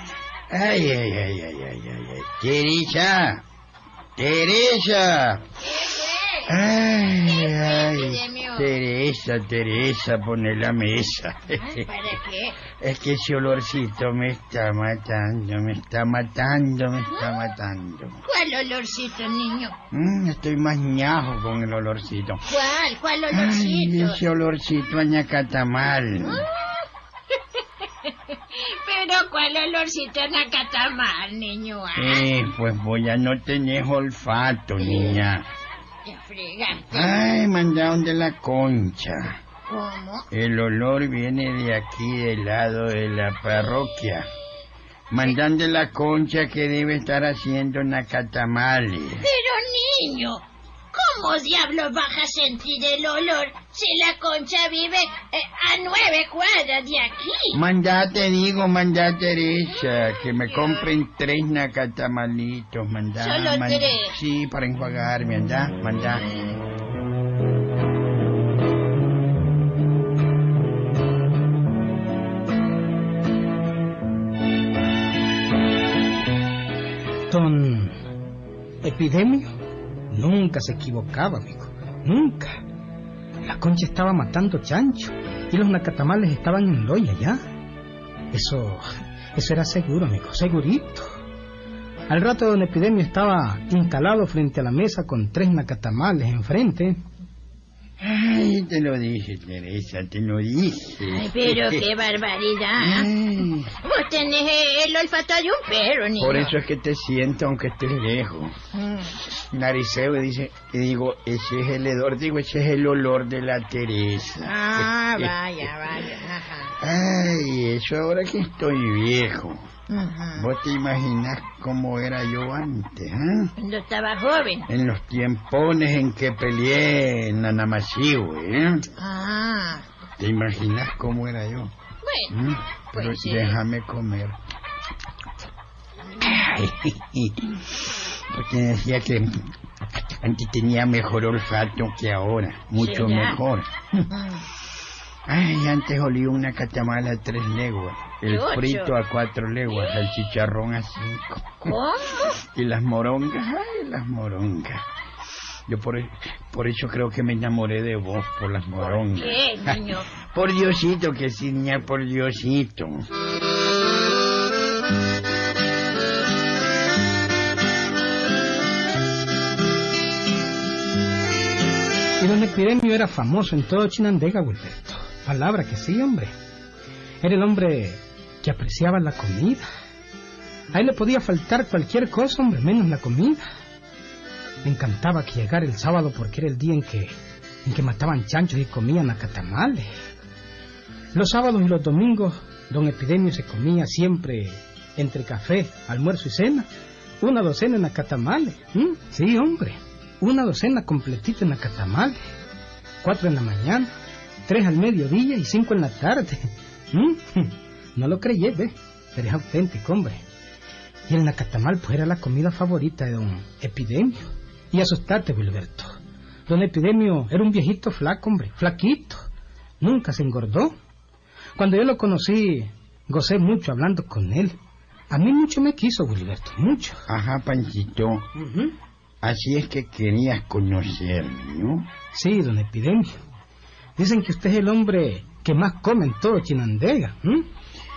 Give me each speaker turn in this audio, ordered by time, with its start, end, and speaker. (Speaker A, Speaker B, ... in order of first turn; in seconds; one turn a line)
Speaker A: 0.5-3.5
Speaker A: 4.2-5.4
Speaker B: 5.6-6.6
Speaker A: 6.5-11.9
Speaker B: 7.2-8.7
Speaker B: 11.6-12.6
Speaker A: 12.7-18.2
Speaker B: 18.3-19.8
Speaker A: 19.9-22.4
Speaker B: 22.5-24.2
Speaker A: 23.3-26.5
Speaker B: 26.2-26.6
Speaker B: 27.3-32.3
Speaker A: 31.9-35.5
Speaker B: 34.8-35.2
Speaker B: 36.0-37.2
Speaker A: 36.9-39.4
Speaker B: 39.7-40.3
Speaker A: 40.3-44.3
Speaker A: 45.1-49.3
Speaker B: 49.2-57.6
Speaker A: 57.5-66.2
Speaker B: 60.5-60.9
Speaker B: 63.2-64.2
Speaker C: 77.3-78.0
Speaker C: 78.8-79.5
Speaker C: 80.1-82.6
Speaker C: 83.4-87.4
Speaker C: 88.3-91.1
Speaker C: 92.1-97.0
Speaker A: 98.0-101.9
Speaker B: 101.0-103.1
Speaker A: 102.8-103.7
Speaker B: 103.8-106.5
Speaker A: 106.2-108.5
Speaker B: 108.7-109.2
Speaker A: 109.3-115.4
Speaker B: 114.4-116.8
Speaker A: 116.8-119.6
Speaker B: 119.9-120.5
Speaker A: 120.3-123.5
Speaker B: 123.6-124.7
Speaker A: 124.7-128.9
Speaker B: 129.0-129.9
Speaker A: 130.2-131.7
Speaker B: 132.0-132.3
Speaker A: 132.3-134.4
Speaker B: 132.9-133.6
Speaker A: 136.2-137.8
Speaker A: 138.3-139.5
Speaker A: 140.1-144.1
Speaker B: 142.8-143.4
Speaker B: 144.1-144.5
Speaker A: 145.3-151.8
Speaker B: 148.3-148.9
Speaker B: 151.7-152.4
Speaker A: 152.5-154.9
Speaker A: 155.7-163.0
Speaker B: 158.8-160.1
Speaker C: 172.2-176.3
Speaker C: 177.2-179.7
Speaker C: 180.7-183.4
Speaker C: 184.6-189.9
Speaker C: 191.1-196.7
Speaker C: 197.2-202.2
Speaker C: 203.0-203.9
Speaker C: 204.5-210.2
Speaker C: 211.1-215.9
Speaker C: 216.5-219.2
Speaker C: 219.8-220.7
Speaker C: 221.6-224.6
Speaker C: 225.1-227.0
Speaker A: 227.1-228.2
Speaker C: 228.4-228.8
Speaker A: 229.2-231.9
Speaker C: 232.1-233.2
Speaker C: 234.0-237.5